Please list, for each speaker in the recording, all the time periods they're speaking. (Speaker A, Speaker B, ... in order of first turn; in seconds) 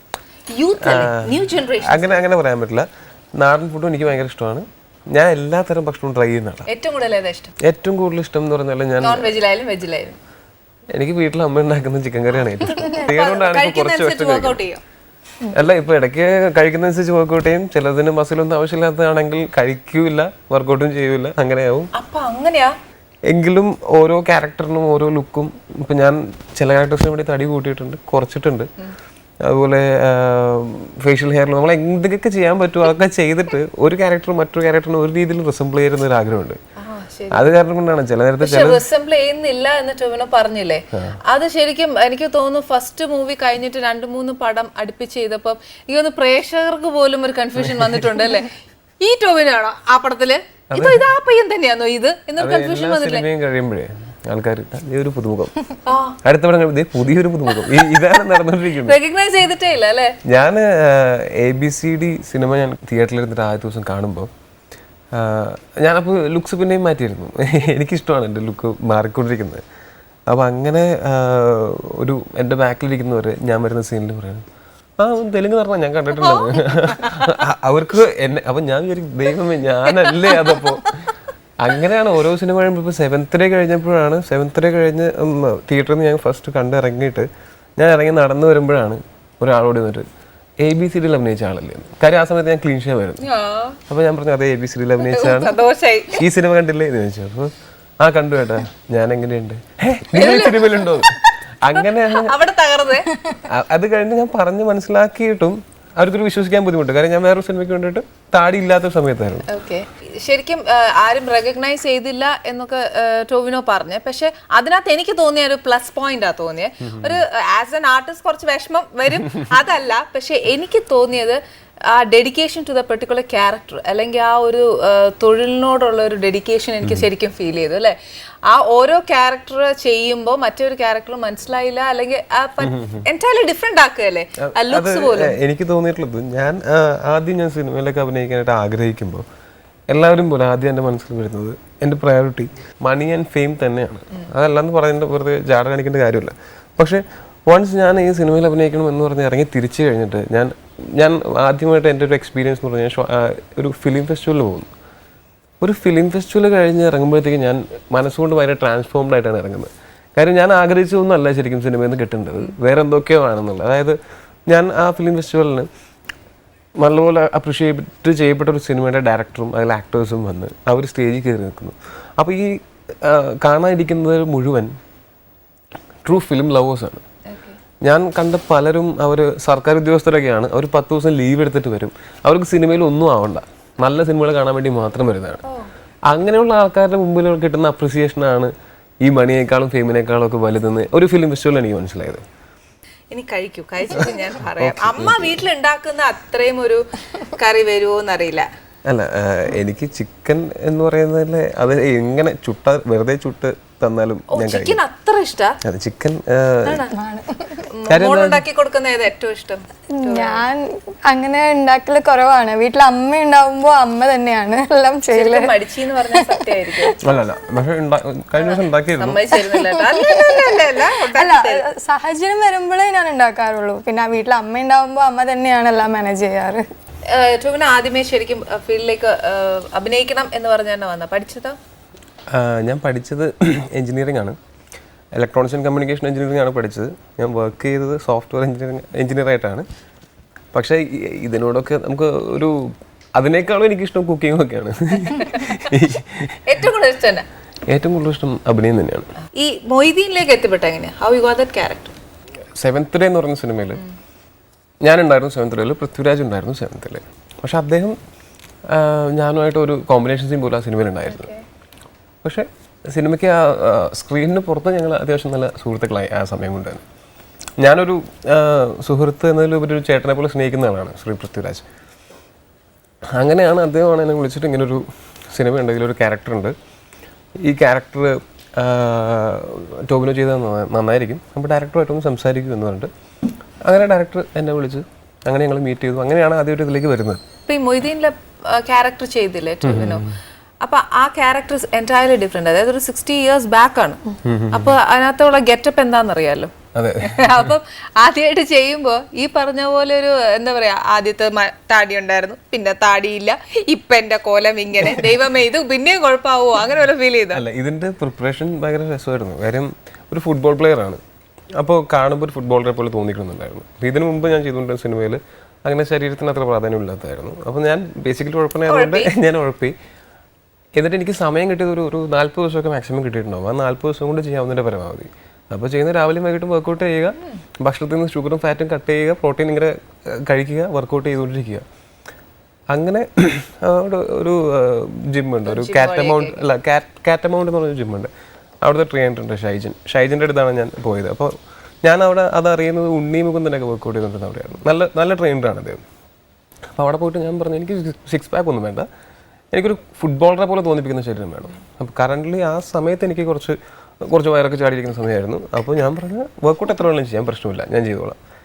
Speaker A: 0.5-2.2, 6.7-7.5, 9.0-10.2, 12.7-14.8, 21.9-22.8, 36.8-37.5, 38.4-53.3, 55.9-56.2, 58.8-60.2, 76.2-77.2, 79.9-80.8, 93.2-93.8, 95.0-96.2, 100.1-103.3, 109.5-128.0, 128.5-135.4, 177.3-177.6, 193.1-198.5, 204.3-205.6, 206.7-206.9, 207.7-210.4, 215.1-217.0, 218.4-221.7, 227.1-231.6, 245.2-245.5, 246.5-247.3, 249.3-252.0, 261.1-261.4, 287.5-290.1, 290.6-307.4, 318.7-319.1, 335.5-336.5
Speaker B: 0.8-6.7, 7.6-9.4, 10.9-14.7, 15.5-21.9, 23.3-28.7, 29.4-36.6, 37.3-38.8, 40.9-41.2, 47.6-48.0, 50.7-51.1, 52.4-55.6, 56.2-59.0, 60.2-64.3, 65.1-69.6, 70.3-74.4, 75.0-81.0, 81.6-90.1, 90.6-93.3, 93.9-95.6, 96.1-102.4, 103.4-109.5, 116.8-117.2, 126.8-127.1, 132.6-133.1, 134.4-139.2, 139.9-154.7, 155.6-165.7, 166.8-174.7, 176.1-177.0, 177.8-185.4, 186.1-192.2, 194.6-195.4, 198.9-204.8, 205.6-206.9, 207.9-208.4, 217.0-219.2, 232.3-234.4, 235.2-239.7, 240.5-246.6, 247.7-249.1, 252.6-253.8, 254.8-258.0, 258.7-261.3, 262.2-266.8, 267.6-271.6, 273.1-276.6, 277.4-282.9, 283.6-287.2, 289.6-290.2, 294.2-294.8, 296.8-297.6, 307.3-311.0, 311.6-319.8, 320.8-331.6, 332.7-338.1, 338.6-345.8, 346.8-348.9, 349.5-358.2
Speaker C: 206.9-207.6, 209.9-215.5, 216.1-216.9, 219.6-220.5, 221.1-226.6